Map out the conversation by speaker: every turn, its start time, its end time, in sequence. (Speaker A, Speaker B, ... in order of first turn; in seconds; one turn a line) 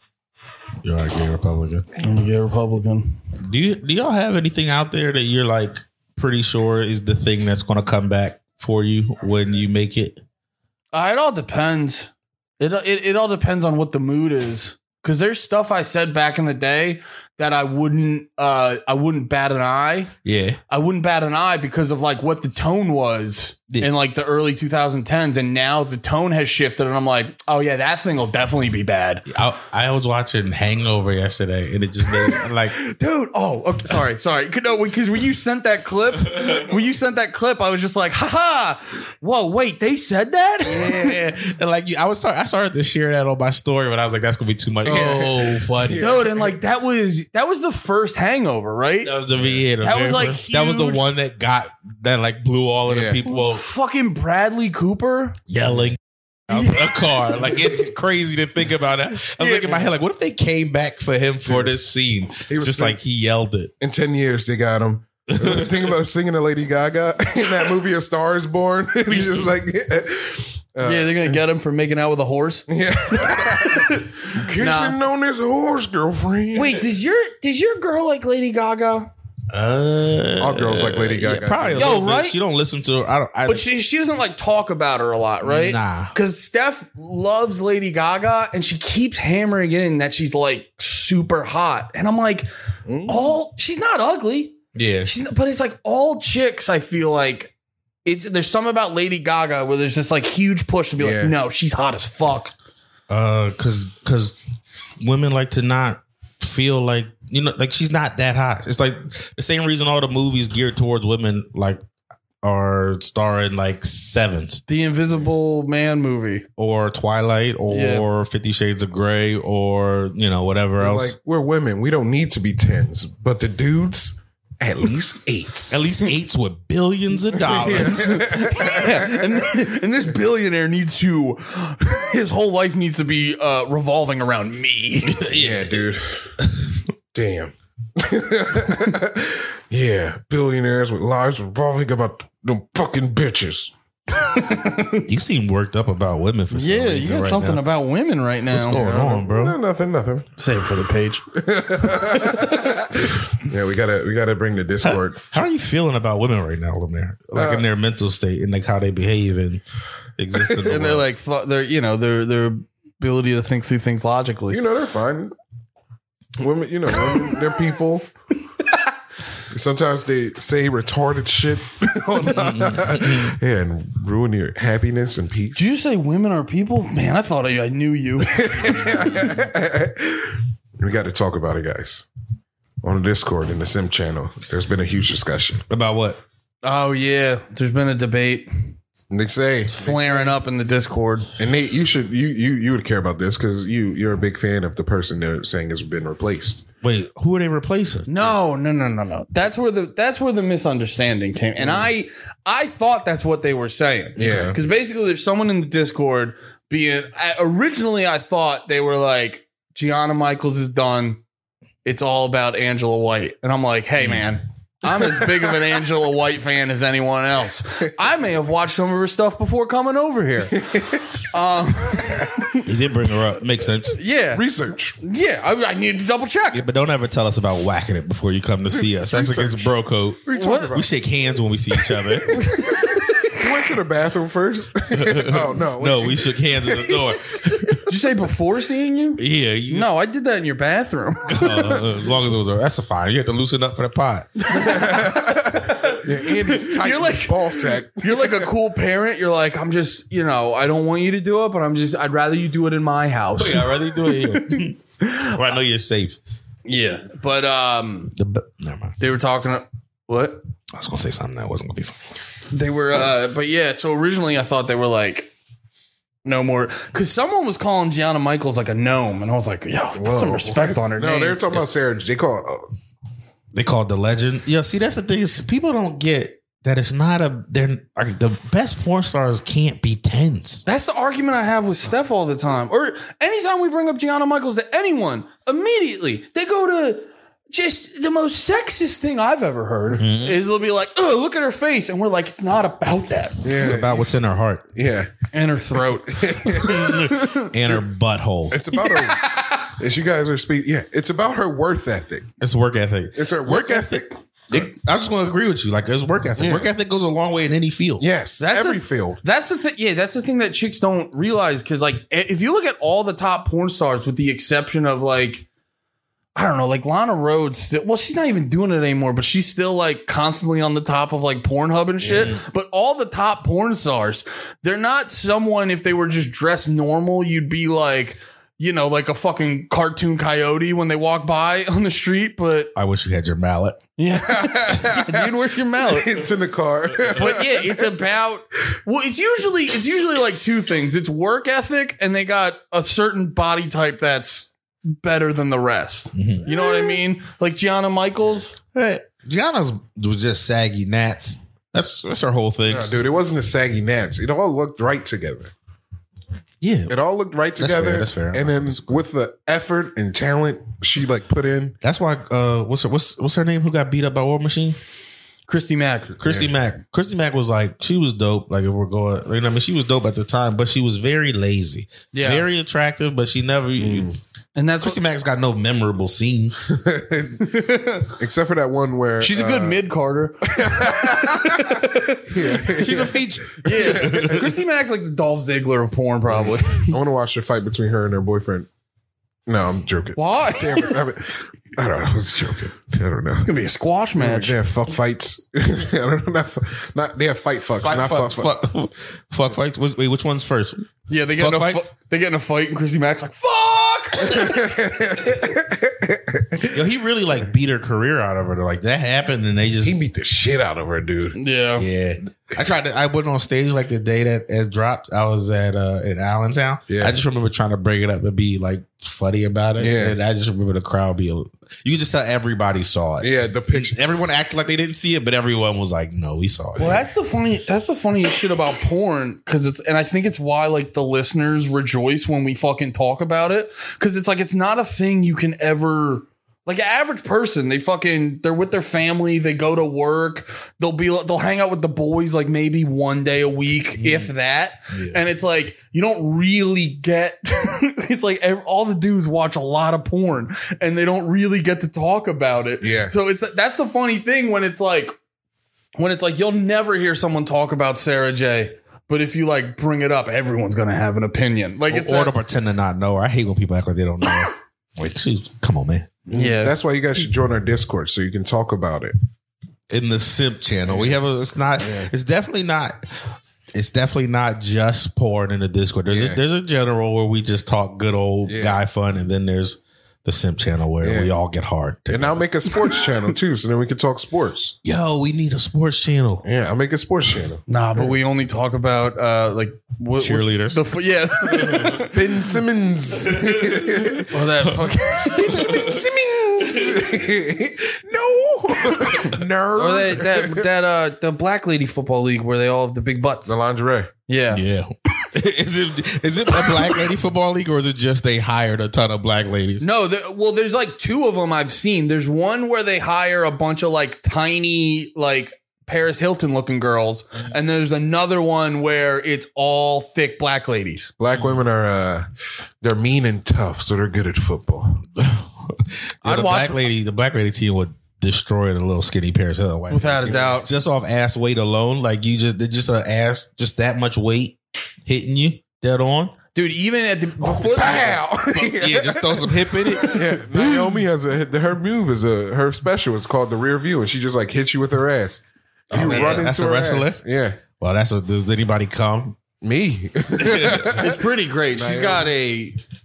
Speaker A: 0.8-1.9
Speaker B: 2.0-3.2
Speaker A: 3.4-10.2
Speaker B: 10.9-20.1
Speaker A: 20.2-20.6
Speaker B: 20.7-29.2
Speaker A: 29.3-32.7
Speaker B: 32.1-41.1
Speaker A: 40.7-46.1
Speaker C: 44.8-46.5
Speaker B: 46.0-49.1
Speaker A: 49.0-53.6
Speaker C: 49.4-49.6
Speaker B: 49.8-51.0
Speaker C: 52.9-53.2
Speaker B: 53.3-55.4
Speaker A: 55.5-63.7
Speaker B: 56.5-57.5
Speaker B: 59.4-59.8
Speaker C: 61.5-61.7
Speaker C: 62.4-63.0
Speaker C: 63.8-71.4
Speaker A: 65.3-65.7
Speaker B: 70.8-72.6
Speaker C: 72.7-76.8
Speaker B: 73.2-75.0
Speaker B: 76.5-79.1
Speaker A: 79.5-83.7
Speaker C: 80.4-82.0
Speaker B: 81.8-82.4
Speaker B: 83.5-92.5
Speaker A: 85.4-86.1
Speaker C: 92.9-93.4
Speaker B: 93.0-97.5
Speaker A: 94.7-95.1
Speaker B: 98.0-102.5
Speaker C: 101.0-101.3
Speaker A: 103.1-104.4
Speaker A: 105.0-111.8
Speaker A: 112.4-114.6
Speaker B: 114.7-116.5
Speaker A: 116.6-121.2
Speaker B: 117.7-118.0
Speaker C: 120.8-125.8
Speaker A: 125.7-128.4
Speaker C: 127.4-129.3
Speaker B: 127.8-135.2
Speaker A: 135.1-135.8
Speaker C: 135.3-136.3
Speaker A: 136.4-136.8
Speaker C: 137.1-143.7
Speaker B: 144.1-145.1
Speaker A: 145.1-147.6
Speaker B: 146.5-148.8
Speaker A: 148.5-149.6
Speaker C: 148.7-150.3
Speaker B: 150.4-151.2
Speaker C: 151.3-155.3
Speaker B: 151.8-152.8
Speaker A: 154.8-159.6
Speaker C: 157.3-157.7
Speaker A: 160.2-161.1
Speaker B: 160.6-164.6
Speaker C: 164.5-165.3
Speaker C: 166.4-168.1
Speaker B: 167.1-167.4
Speaker C: 169.5-175.6
Speaker A: 172.3-173.4
Speaker B: 175.5-178.9
Speaker C: 178.3-182.1
Speaker C: 182.8-185.6
Speaker A: 185.7-186.2
Speaker B: 186.6-188.7
Speaker C: 189.1-190.4
Speaker B: 189.7-191.3
Speaker C: 191.4-196.6
Speaker A: 196.8-198.3
Speaker B: 198.1-211.2
Speaker C: 201.6-201.9
Speaker C: 204.2-204.6
Speaker A: 204.2-204.5
Speaker B: 211.8-222.6
Speaker A: 214.0-214.2
Speaker A: 222.6-224.0
Speaker B: 223.9-224.4
Speaker C: 224.3-225.0
Speaker B: 225.0-226.6
Speaker A: 226.5-232.4
Speaker C: 228.8-229.7
Speaker C: 230.2-230.9
Speaker B: 230.3-230.7
Speaker B: 232.3-233.4
Speaker C: 233.3-237.0
Speaker A: 234.9-237.8
Speaker B: 237.8-241.8
Speaker A: 239.2-239.9
Speaker A: 241.3-244.3
Speaker B: 244.4-255.3
Speaker C: 244.5-248.5
Speaker A: 253.4-256.2
Speaker B: 256.6-258.1
Speaker A: 258.1-258.9
Speaker B: 259.0-260.4
Speaker A: 260.7-262.1
Speaker B: 262.5-265.3
Speaker B: 266.2-271.6
Speaker C: 270.0-272.7
Speaker A: 273.5-280.6
Speaker B: 280.6-293.4
Speaker A: 290.0-290.4
Speaker C: 293.4-294.1
Speaker A: 293.6-294.6
Speaker C: 294.7-295.1
Speaker B: 295.3-297.5
Speaker C: 296.1-296.9
Speaker A: 296.6-298.6
Speaker C: 298.5-302.3
Speaker B: 298.7-299.7
Speaker A: 302.4-308.0
Speaker C: 303.1-304.6
Speaker C: 306.4-306.7
Speaker C: 308.0-309.2
Speaker B: 308.4-315.4
Speaker B: 316.3-332.7
Speaker A: 322.0-322.4
Speaker A: 332.8-333.8
Speaker B: 334.0-336.2
Speaker C: 334.2-338.0
Speaker B: 337.1-348.6
Speaker A: 346.1-346.5
Speaker A: 348.7-352.9
Speaker C: 352.7-355.5
Speaker A: 356.6-356.9
Speaker C: 356.9-361.8
Speaker A: 357.6-359.0
Speaker A: 361.8-364.8
Speaker B: 365.5-366.2
Speaker A: 366.2-374.1
Speaker C: 366.2-366.5
Speaker B: 372.1-372.5
Speaker C: 373.8-374.2
Speaker B: 374.6-375.0
Speaker A: 374.8-376.8
Speaker C: 376.7-377.5
Speaker B: 377.4-378.1
Speaker C: 378.2-379.8
Speaker B: 379.2-382.6
Speaker C: 380.4-384.5
Speaker A: 382.7-384.5
Speaker B: 383.6-386.9
Speaker C: 386.4-388.7
Speaker C: 389.5-393.5
Speaker B: 390.1-390.9
Speaker B: 393.4-394.5
Speaker C: 394.2-398.5
Speaker A: 397.8-401.9
Speaker B: 401.1-404.6
Speaker C: 404.2-406.7
Speaker A: 406.6-410.0
Speaker C: 409.8-411.4
Speaker B: 411.3-411.9
Speaker A: 411.8-427.0
Speaker C: 416.9-417.2
Speaker C: 419.8-420.2
Speaker C: 423.2-424.0
Speaker B: 426.8-455.1
Speaker A: 444.0-444.3
Speaker A: 444.9-445.2
Speaker C: 452.8-453.1
Speaker B: 456.0-462.3
Speaker A: 461.9-466.1
Speaker C: 466.3-469.1
Speaker B: 466.3-466.7
Speaker A: 469.9-482.4
Speaker C: 470.9-471.2
Speaker C: 471.8-472.1
Speaker C: 476.1-476.4
Speaker C: 478.4-478.8
Speaker C: 481.0-481.3
Speaker C: 482.1-484.8
Speaker A: 484.8-486.4
Speaker C: 486.4-487.6
Speaker B: 487.7-492.2
Speaker A: 490.2-490.8
Speaker A: 491.5-492.0
Speaker C: 492.1-494.3
Speaker A: 493.3-496.0
Speaker B: 494.3-495.9
Speaker C: 495.4-500.7
Speaker B: 499.8-503.5
Speaker C: 503.5-504.1
Speaker B: 504.3-504.6
Speaker A: 504.5-509.9
Speaker B: 509.8-521.1
Speaker C: 521.2-522.3
Speaker C: 522.8-525.0
Speaker A: 525.1-536.3
Speaker B: 526.2-526.9
Speaker B: 529.9-530.7
Speaker B: 536.5-538.2
Speaker C: 537.4-547.6
Speaker A: 538.5-540.4
Speaker B: 540.1-540.9
Speaker A: 545.9-547.2
Speaker B: 545.9-546.4
Speaker A: 547.8-549.4
Speaker C: 549.6-552.3
Speaker A: 550.4-551.0
Speaker B: 550.9-552.8